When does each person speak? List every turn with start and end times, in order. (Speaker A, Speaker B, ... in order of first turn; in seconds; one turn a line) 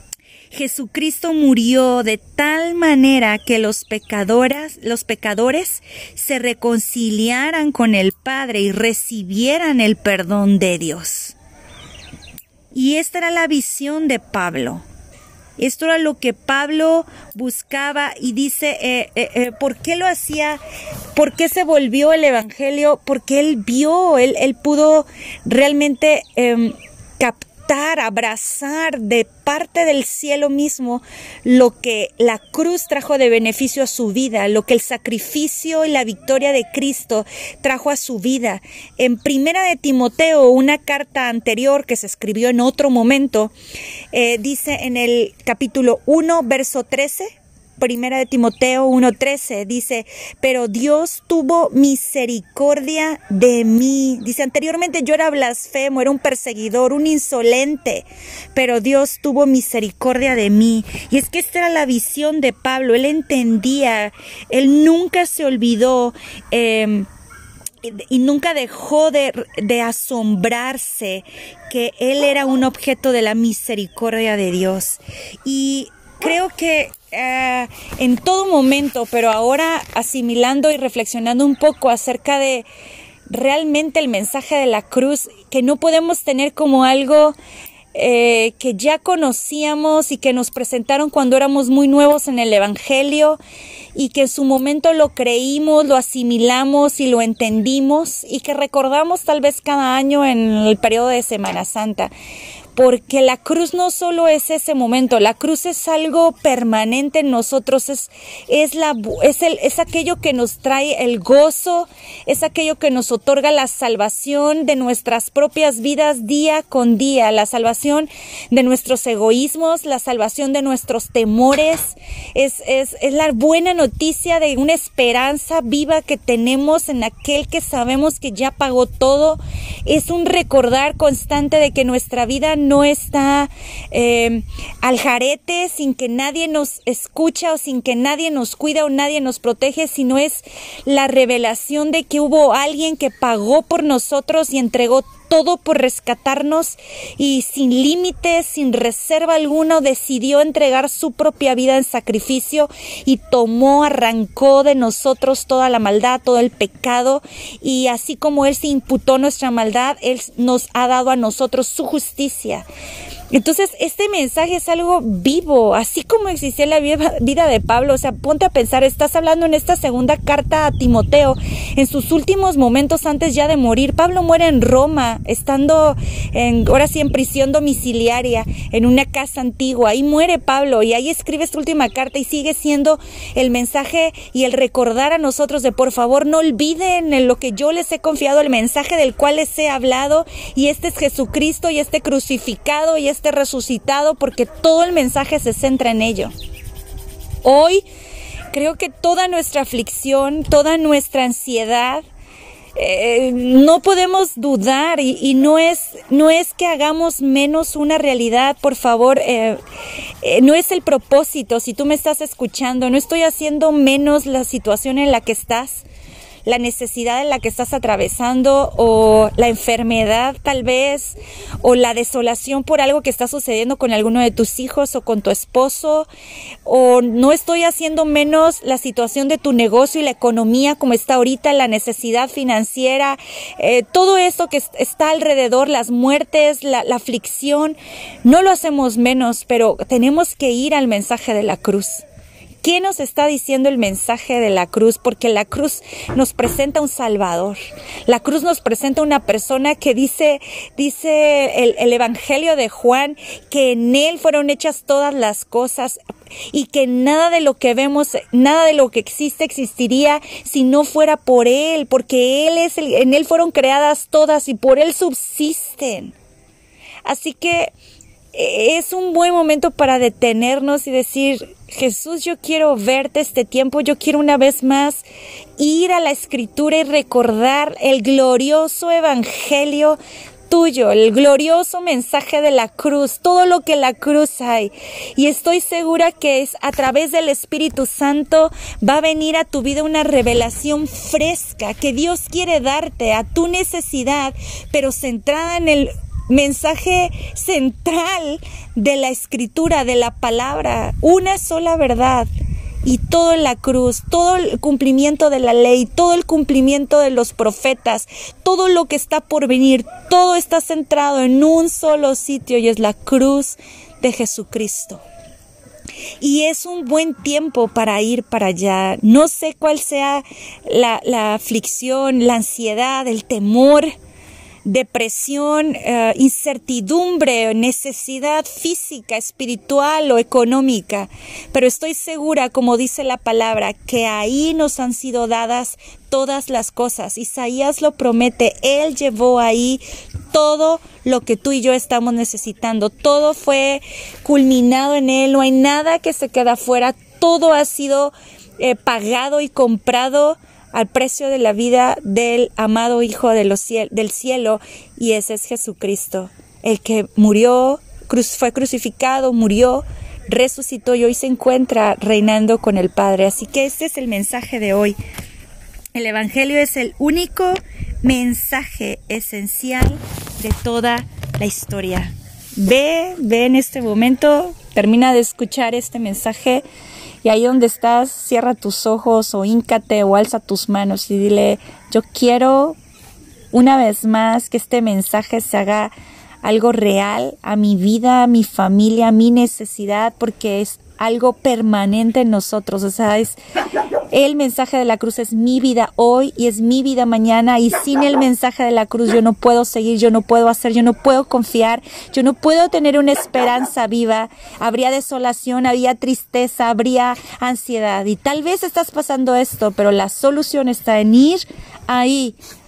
Speaker A: 0.5-11.3
Speaker A: 12.7-14.8
Speaker A: 15.6-20.6
Speaker A: 21.1-43.5
Speaker A: 44.1-67.1
Speaker A: 67.8-82.7
Speaker A: 83.3-87.3
Speaker A: 87.9-93.4
Speaker A: 93.9-102.1
Speaker A: 102.7-162.6
Speaker A: 163.3-196.3
Speaker A: 197.4-197.8
Speaker A: 198.5-202.0
Speaker A: 202.8-209.6
Speaker A: 210.2-215.8
Speaker A: 216.4-226.1
Speaker A: 226.6-242.0
Speaker A: 242.6-256.0
Speaker A: 256.5-266.1
Speaker A: 267.0-267.7
Speaker A: 268.3-275.0
Speaker A: 275.6-302.3
Speaker A: 302.8-315.0
Speaker A: 316.2-323.9
Speaker A: 324.6-365.0
Speaker A: 365.9-376.6
Speaker A: 377.2-382.8
Speaker A: 383.5-385.9
Speaker A: 386.4-393.4
Speaker A: 394.1-412.4